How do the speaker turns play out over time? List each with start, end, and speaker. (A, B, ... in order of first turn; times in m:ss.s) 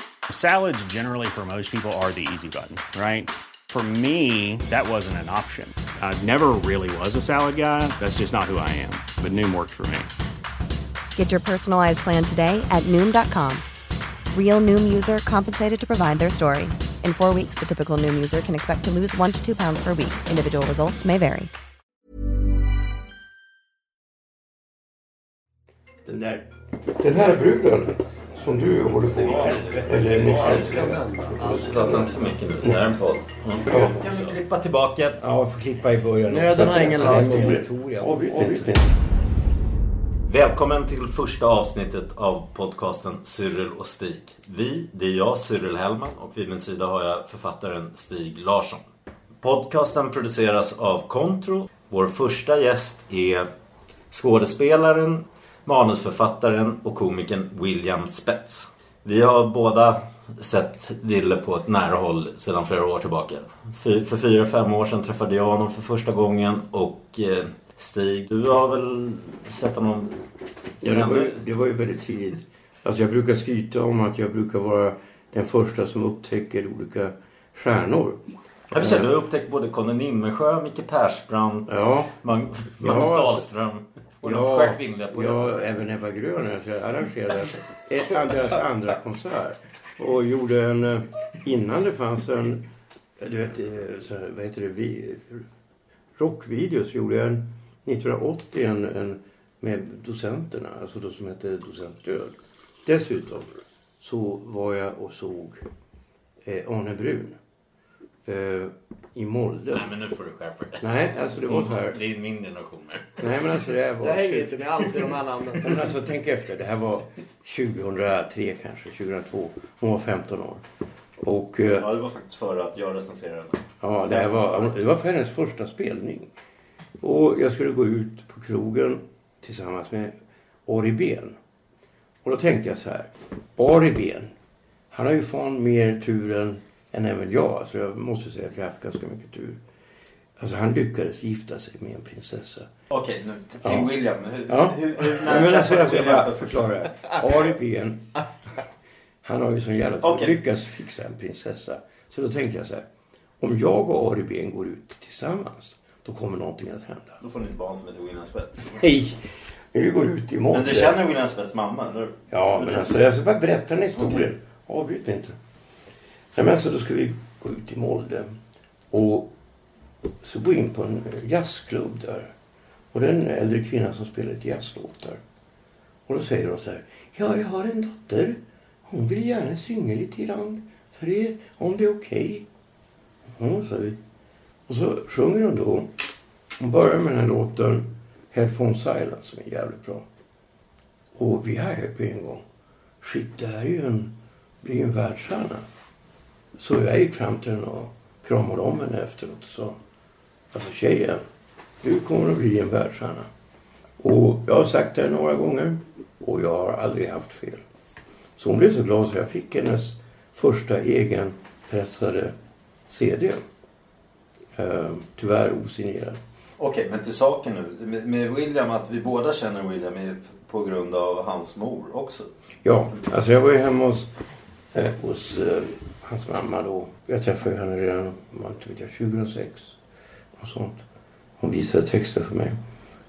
0:00.3-0:10.1 A
0:11.1-0:13.6 B
0:14.3-0:21.5 B
0:26.0-0:32.9 C
0:29.0-0:35.2 D
0:30.3-0:32.0 E
0:33.6-0:34.4 C
0:35.2-0:39.0 C
0:36.3-0:37.6 E
0:37.0-0:38.7 D
0:40.2-0:48.8 D
0:49.4-0:53.5 D
0:54.1-1:10.2 D
1:10.8-1:11.4 D
1:10.8-1:19.1 C
1:18.7-1:25.7 D
1:21.7-1:22.1 C
1:22.7-1:23.4 C
1:24.2-1:32.7 C
1:33.2-1:35.4 C
1:36.2-1:43.5 C
1:44.0-1:45.6 C
1:46.4-1:47.4 C
1:48.2-1:49.9 C
1:49.7-1:50.9 D
1:50.8-1:52.0 C
1:51.4-1:53.4 D
1:53.2-1:54.9 C
1:54.0-1:55.8 E
1:55.6-2:00.6 C
2:01.2-2:01.9 C
2:01.8-2:04.6 D
2:03.8-2:06.3 C
2:07.0-2:10.1 C
2:10.6-2:11.4 C
2:12.2-2:14.3 C
2:14.9-2:19.6 C
2:20.4-2:22.7 C
2:22.9-2:27.5 D
2:23.6-2:23.9 C
2:24.5-2:28.2 C
2:29.2-2:32.9 C
2:30.0-2:30.4 D
2:33.4-2:37.2 C
2:37.2-2:38.9 D
2:38.7-2:41.0 C
2:40.5-2:43.0 D
2:42.3-2:45.4 C
2:44.0-2:44.2 D
2:46.3-2:48.3 C
2:48.9-2:49.3 C
2:50.2-2:52.3 C
2:52.9-2:55.2 C
2:56.1-3:02.5 C
3:03.3-3:04.0 C
3:04.7-3:05.9 C
3:06.6-3:10.0 C
3:11.1-3:12.4 C
3:13.0-3:15.6 C
3:16.6-3:19.8 C
3:20.5-3:21.2 C
3:21.8-3:23.3 C
3:24.0-3:27.6 C
3:28.4-3:32.3 C
3:32.9-3:33.4 C
3:34.5-3:36.2 C
3:36.6-3:42.3 D
3:42.6-3:44.1 C
3:44.7-3:49.8 C
3:50.4-3:50.8 C
3:51.4-3:52.6 C